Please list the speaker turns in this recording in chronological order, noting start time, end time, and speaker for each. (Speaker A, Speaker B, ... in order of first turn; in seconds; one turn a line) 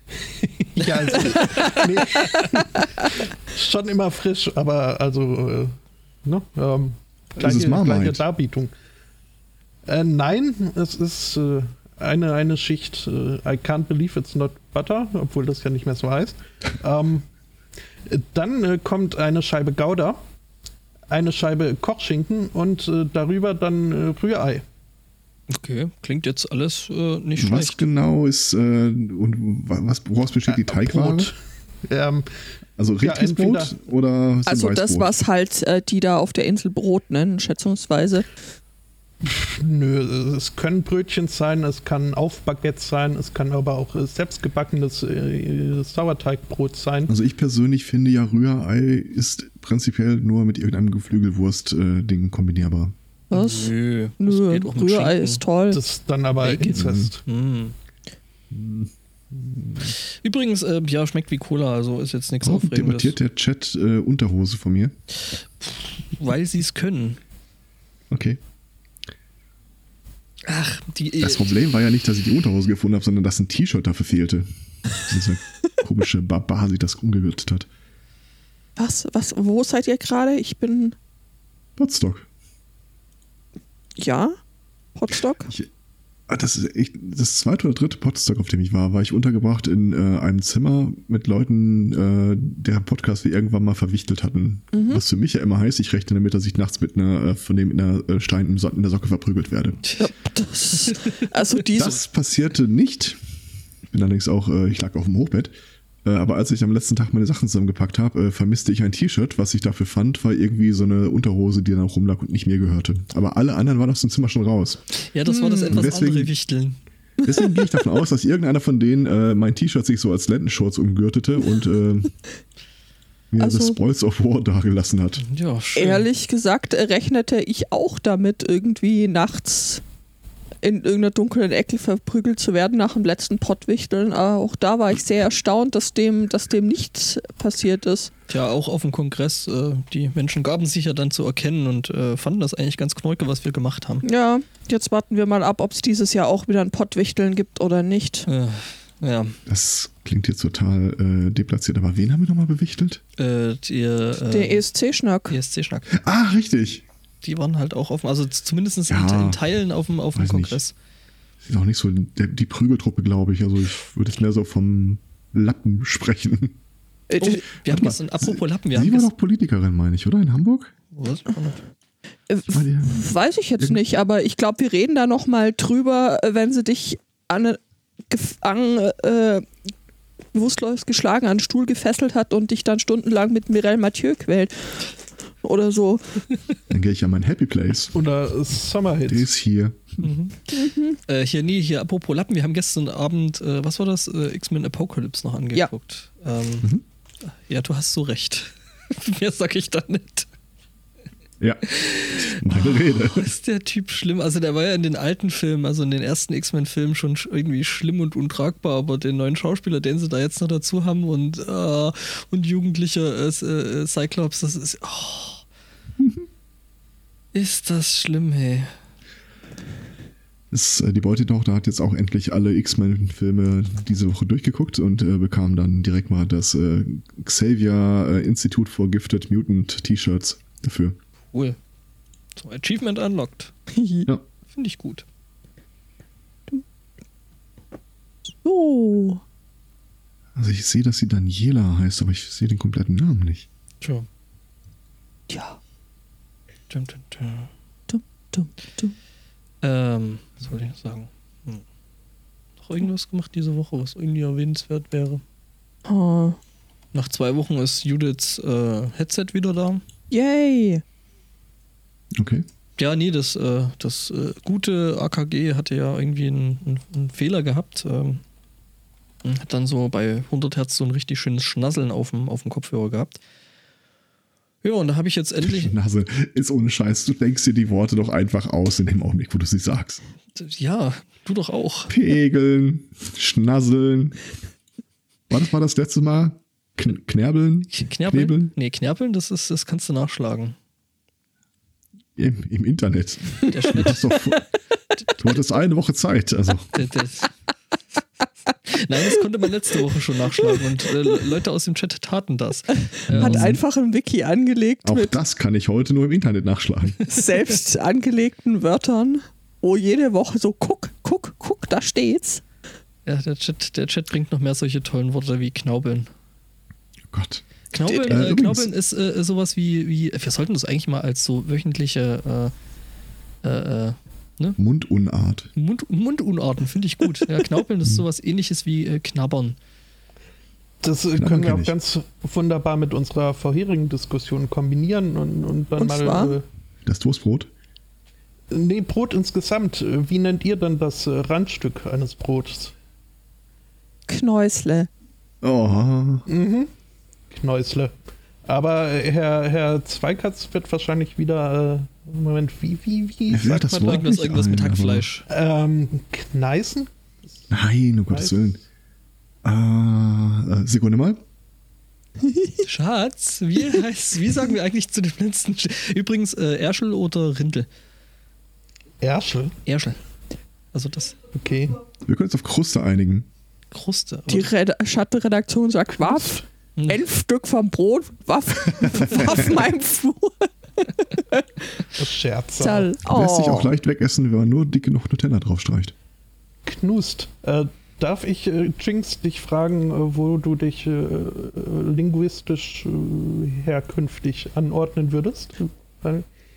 Speaker A: 0.2-8.7
Speaker B: 7.4-8.2
Speaker A: 9.9-17.3
Speaker A: 18.1-20.2
Speaker A: 21.1-24.6
Speaker C: 25.5-27.8
Speaker B: 27.4-31.3
Speaker A: 30.5-32.3
Speaker B: 32.8-35.2
Speaker A: 33.0-33.7
Speaker D: 34.5-38.3
Speaker A: 39.2-47.1
Speaker B: 47.1-53.0
Speaker D: 53.3-55.8
Speaker C: 53.3-55.4
Speaker A: 55.7-57.2
Speaker C: 56.4-57.8
Speaker B: 56.7-57.1
Speaker B: 58.5-59.9
Speaker C: 60.0-63.2
Speaker B: 62.4-64.9
Speaker C: 65.6-67.2
Speaker B: 68.1-68.4
Speaker C: 70.5-71.5
Speaker B: 71.2-74.5
Speaker B: 75.0-77.7
Speaker D: 78.8-81.0
Speaker B: 81.8-82.3
Speaker D: 84.0-84.3
Speaker D: 85.0-85.5
Speaker B: 86.3-99.8
Speaker D: 94.7-95.0
Speaker D: 100.0-102.0
Speaker B: 101.8-103.2
Speaker B: 103.9-105.5
Speaker B: 106.0-114.8
Speaker C: 115.0-116.8
Speaker D: 115.3-115.9
Speaker B: 115.7-116.3
Speaker D: 117.2-117.8
Speaker B: 117.2-122.1
Speaker B: 123.3-125.2
Speaker D: 123.4-123.8
Speaker C: 125.2-126.1
Speaker D: 125.8-129.8
Speaker D: 130.6-138.1
Speaker C: 138.3-144.1
Speaker D: 144.0-148.3
Speaker C: 148.3-149.4
Speaker B: 149.5-153.0
Speaker C: 153.2-154.6
Speaker D: 154.2-155.4
Speaker C: 155.3-155.9
Speaker B: 155.9-156.8
Speaker C: 157.2-160.7
Speaker B: 158.9-159.4
Speaker B: 160.2-160.6
Speaker B: 161.4-166.6
Speaker D: 167.1-167.4
Speaker C: 167.2-169.1
Speaker B: 167.7-170.7
Speaker C: 170.9-171.6
Speaker D: 172.3-179.4
Speaker B: 172.5-173.8
Speaker D: 180.3-184.9
Speaker D: 185.4-186.2
Speaker B: 186.7-187.9
Speaker A: 187.9-189.3
Speaker B: 189.1-190.0
Speaker C: 190.0-190.5
Speaker D: 190.5-191.0
Speaker C: 191.1-196.7
Speaker C: 197.2-200.3
Speaker B: 201.4-203.3
Speaker C: 201.6-215.4
Speaker B: 216.0-216.3
Speaker C: 217.3-218.7
Speaker B: 220.5-231.0
Speaker C: 232.4-233.5
Speaker D: 233.7-234.1
Speaker C: 234.5-235.1
Speaker D: 238.4-239.2
Speaker B: 240.3-243.5
Speaker C: 243.8-244.1
Speaker D: 245.3-245.6
Speaker C: 246.7-247.5
Speaker D: 247.9-248.9
Speaker C: 249.6-251.6
Speaker C: 252.6-255.2
Speaker D: 255.9-256.4
Speaker C: 256.9-259.8
Speaker D: 260.1-260.8
Speaker B: 262.1-262.4
Speaker C: 262.8-268.2
Speaker C: 269.2-273.2
Speaker C: 274.6-275.7
Speaker B: 275.4-280.0
Speaker C: 280.4-281.9
Speaker B: 281.9-284.2
Speaker B: 285.3-288.5
Speaker C: 287.7-290.6
Speaker B: 292.2-294.5
Speaker C: 293.5-294.1
Speaker B: 295.2-296.8
Speaker C: 296.7-297.3
Speaker C: 298.7-303.5
Speaker B: 303.1-303.6
Speaker D: 303.1-305.2
Speaker B: 304.9-307.0
Speaker D: 307.1-312.4
Speaker C: 313.1-316.1
Speaker B: 317.1-317.4
Speaker C: 317.7-322.5
Speaker D: 317.9-318.3
Speaker B: 318.1-318.7
Speaker C: 323.4-324.6
Speaker B: 324.6-325.5
Speaker C: 325.6-329.6
Speaker A: 330.8-336.4
Speaker B: 331.1-331.8
Speaker D: 335.8-336.4
Speaker B: 336.9-337.5
Speaker A: 338.5-342.7
Speaker D: 344.1-344.9
Speaker B: 345.4-346.3
Speaker A: 346.3-346.7
Speaker A: 347.3-347.9
Speaker A: 348.4-354.1
Speaker B: 353.3-355.1
Speaker C: 353.7-355.3
Speaker A: 355.3-356.9
Speaker B: 357.5-358.6
Speaker A: 358.1-358.4
Speaker B: 359.4-361.2
Speaker C: 362.6-367.7
Speaker A: 369.0-369.6
Speaker C: 369.7-370.0
Speaker C: 370.7-371.2
Speaker A: 371.3-371.8
Speaker B: 372.1-373.3
Speaker C: 373.7-374.5
Speaker D: 374.3-381.4
Speaker A: 376.0-376.4
Speaker B: 378.7-379.6
Speaker A: 382.0-382.9
Speaker D: 382.6-383.7
Speaker B: 383.1-385.9
Speaker A: 386.6-396.3